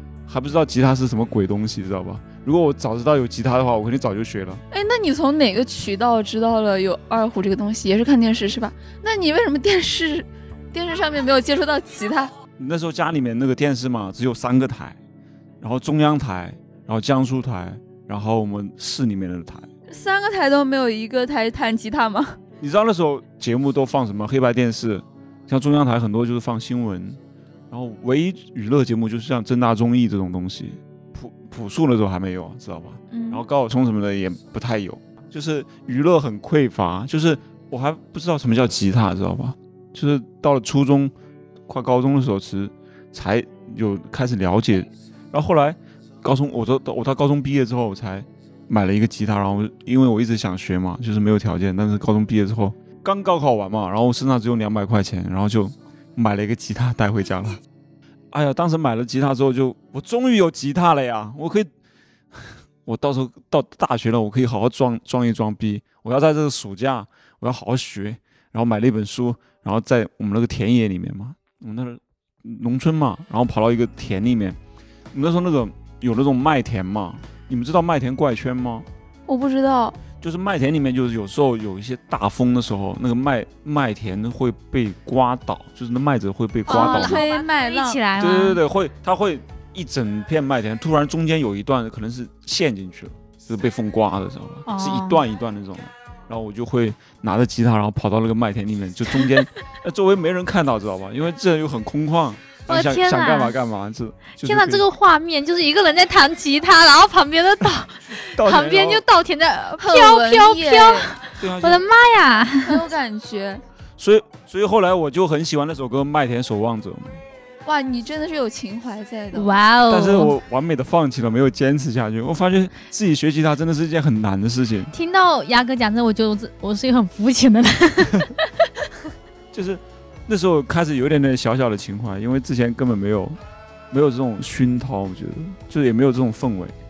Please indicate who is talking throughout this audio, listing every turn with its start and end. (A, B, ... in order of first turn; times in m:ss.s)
0:00.3-0:04.6 A
0:04.7-0:12.3 B
0:12.6-0:15.0 A
0:15.6-0:19.7 A
0:19.9-0:22.4 B
0:22.6-0:41.1 A
0:33.1-0:33.4 B
0:41.7-0:57.6 A
0:58.3-1:01.7 A
1:02.3-1:14.6 A
1:15.1-1:18.9 A
1:19.3-1:20.0 B
1:20.2-1:27.2 A
1:26.7-1:28.6 C
1:26.7-1:28.0 B
1:28.2-1:44.8 A
1:34.6-1:35.2 C
1:42.7-1:43.5 C
1:44.4-1:52.8 C
1:48.3-1:49.0 A
1:49.8-1:51.1 B
1:51.4-1:51.8 A
1:52.6-1:53.6 B
1:54.0-1:57.2 A
1:57.6-1:59.5 B
1:59.3-2:00.3 C
1:59.9-2:04.9 A
2:04.9-2:08.3 C
2:09.5-2:13.4 A
2:13.9-2:16.7 A